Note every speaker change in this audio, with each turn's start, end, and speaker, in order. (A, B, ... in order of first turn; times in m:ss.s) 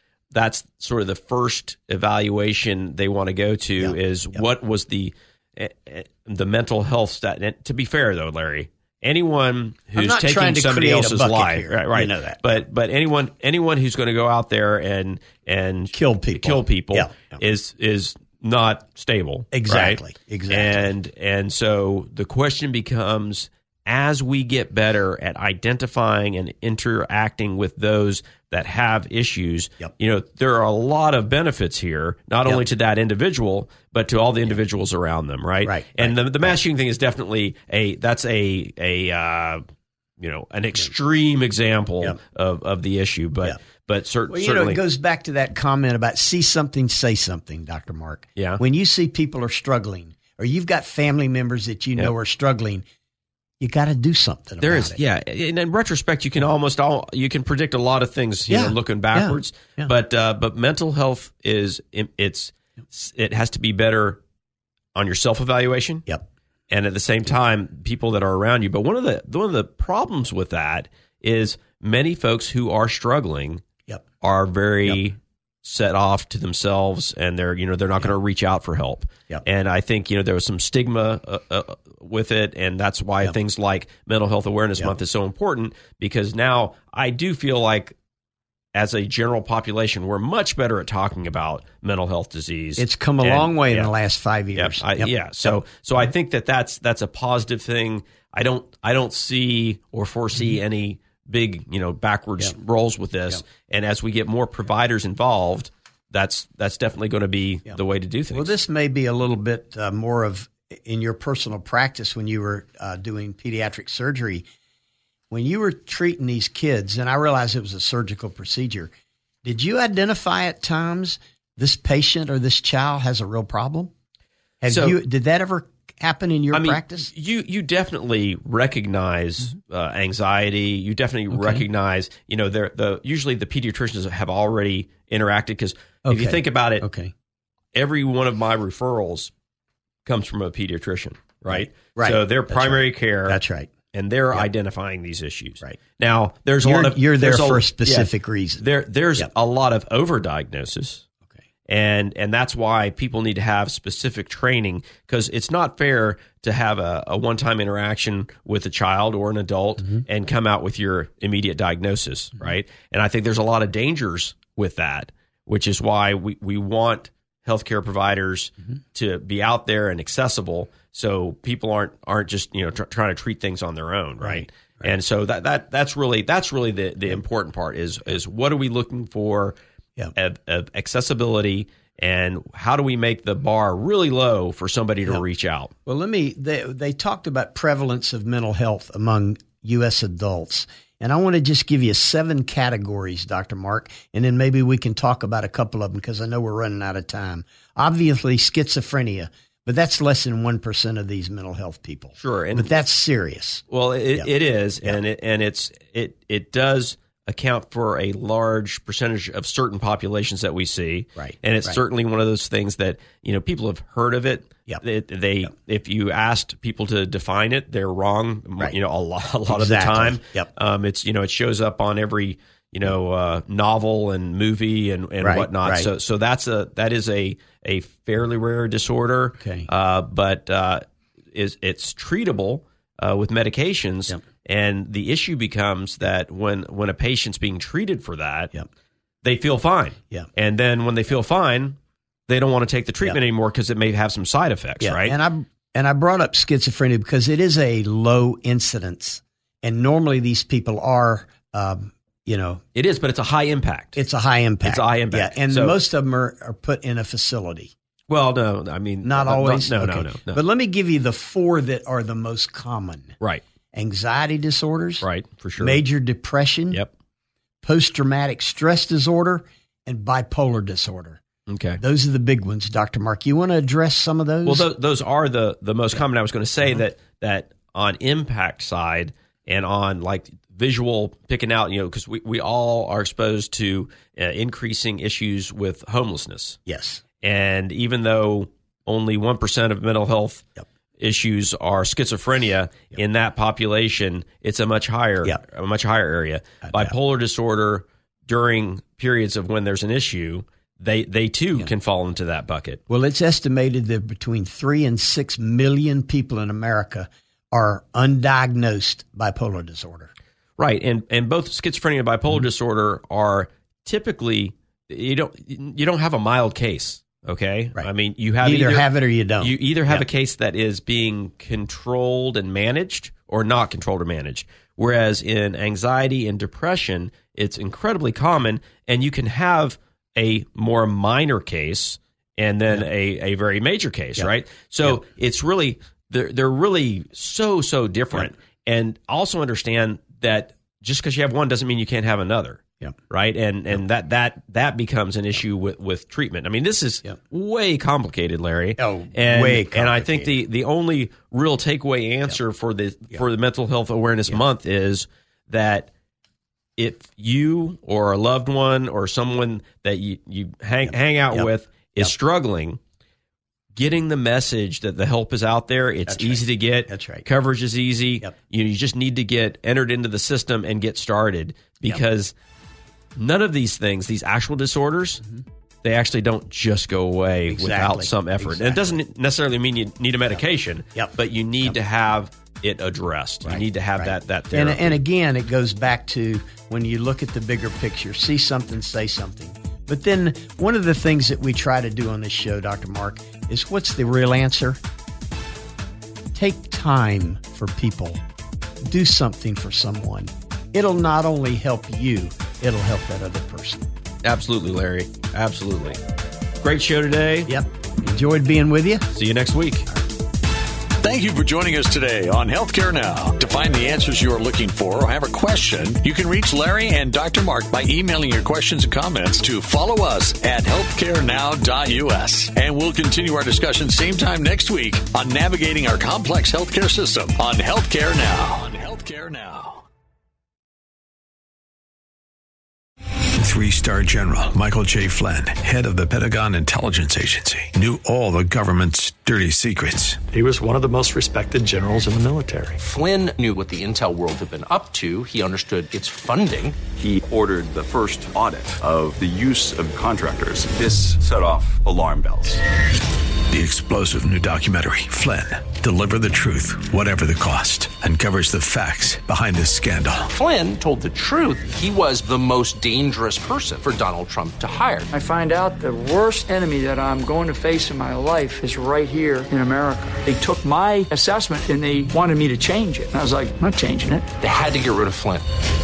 0:00.3-0:39.6 A
0:03.8-0:04.4 B
0:09.9-0:12.5 B
0:15.9-0:17.4 B
0:19.5-0:20.9 B
0:35.6-0:36.6 B
0:40.2-0:44.8 A
0:44.3-0:52.8 B
0:48.4-0:48.6 A
0:53.6-0:55.0 B
0:54.6-1:04.2 A
0:58.5-0:59.9 B
1:05.0-1:06.1 A
1:06.7-1:13.6 A
1:14.2-1:28.0 A
1:28.7-1:33.9 A
1:32.8-1:35.6 B
1:34.6-1:48.5 A
1:48.3-1:54.5 B
1:55.3-1:58.9 B
1:59.4-2:03.9 B
2:04.6-2:07.1 B
2:04.7-2:05.0 A
2:06.5-2:16.9 A
2:11.3-2:11.6 B
2:16.0-2:17.1 B
2:17.7-2:19.3 A
2:20.1-2:23.4 A
2:21.5-2:23.7 B
2:23.9-2:28.1 A
2:26.6-2:28.6 B
2:28.6-2:31.0 A
2:31.7-2:59.6 A
2:54.2-2:54.9 B
3:00.2-3:05.7 A
3:05.9-3:24.3 B
3:22.2-3:22.7 A
3:23.7-3:58.5 A
3:31.2-3:31.8 B
3:39.5-3:40.5 B
3:45.2-3:45.9 B
3:49.4-3:49.7 B
3:59.2-4:01.8 A
4:02.3-4:05.2 A
4:04.8-4:12.6 B
4:12.8-4:14.0 A
4:14.0-4:17.7 B
4:14.6-4:15.8 A
4:18.1-4:20.4 A
4:19.0-4:23.2 B
4:23.7-4:25.0 B
4:25.0-4:25.8 A
4:25.6-4:26.8 B
4:27.6-4:31.2 B
4:31.5-4:31.8 A
4:31.8-4:34.7 B
4:34.5-4:46.6 A
4:46.7-4:47.0 B
4:47.2-4:50.5 A
4:51.0-5:02.8 A
4:56.6-4:56.9 B
5:02.9-5:10.1 B
5:10.6-5:18.9 A
5:18.4-5:20.1 B
5:19.4-5:55.9 A
5:48.8-5:50.4 B
5:56.8-6:02.8 A
6:01.3-6:02.1 B
6:03.8-6:12.3 A
6:06.1-6:07.3 B
6:13.2-6:15.2 A
6:15.8-6:25.0 A
6:17.5-6:19.0 B
6:23.4-6:34.8 B
6:36.3-6:38.2 B
6:38.8-6:43.8 B
6:44.2-6:46.0 A
6:46.6-6:47.5 A
6:47.5-6:49.1 B
6:49.1-6:49.9 A
6:51.0-7:09.8 C
7:13.4-7:20.2 D
7:20.3-7:22.8 E
7:22.8-7:26.8 F
7:27.0-7:32.6 G
7:33.5-7:40.3 D
7:40.2-7:45.1 F
7:45.1-7:54.3 H
7:54.4-7:55.5 F